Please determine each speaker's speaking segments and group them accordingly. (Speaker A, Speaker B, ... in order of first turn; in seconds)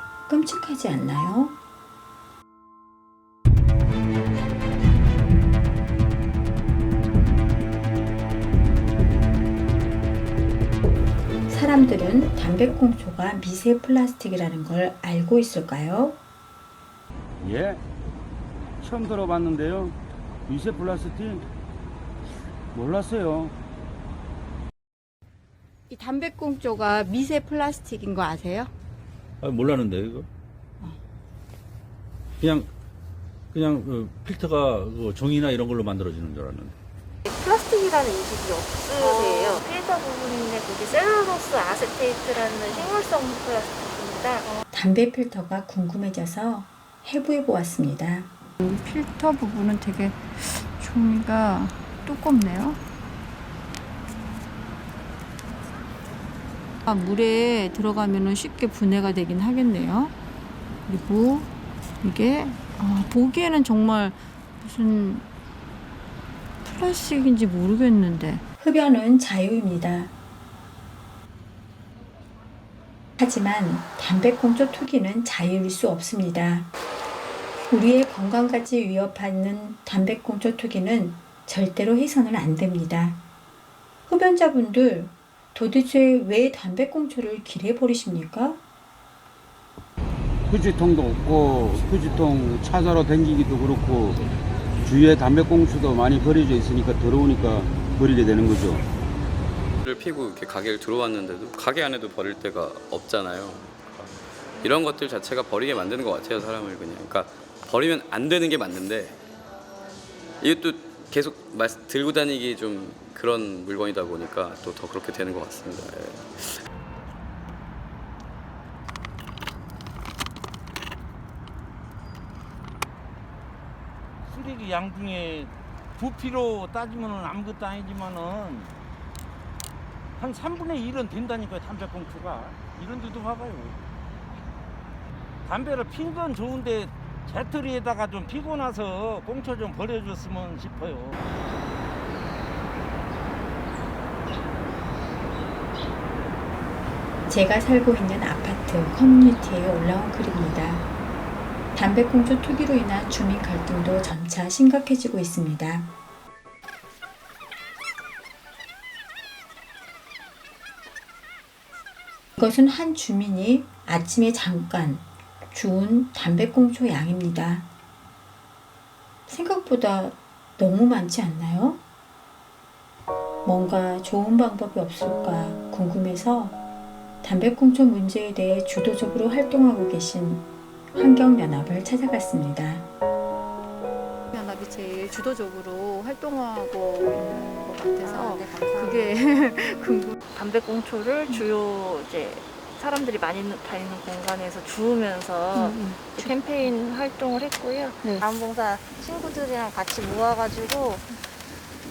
Speaker A: 0.3-1.6, 11.5-16.2, 44.7-48.3, 68.6-70.1, 73.2-76.7, 77.7-83.2, 84.1-88.6, 147.3-150.9, 151.7-155.9, 162.4-167.7, 169.3-171.8, 173.4-176.6, 177.2-182.9
Speaker B: 17.4-17.8, 18.8-20.0, 20.5-21.4, 22.7-23.6, 90.5-94.2, 94.8-98.9
Speaker C: 20.8-21.1, 124.2-128.7, 130.2-133.8, 135.5-141.2
Speaker D: 25.9-28.7, 48.6-52.8, 56.9-60.1, 60.9-61.5, 62.0-65.3, 66.6-68.5, 184.3-190.2, 195.6-196.3
Speaker E: 29.4-30.3, 32.4-32.7, 33.5-36.8
Speaker F: 37.2-44.5, 187.5-189.1, 190.3-201.6
Speaker G: 99.8-109.2, 110.4-116.6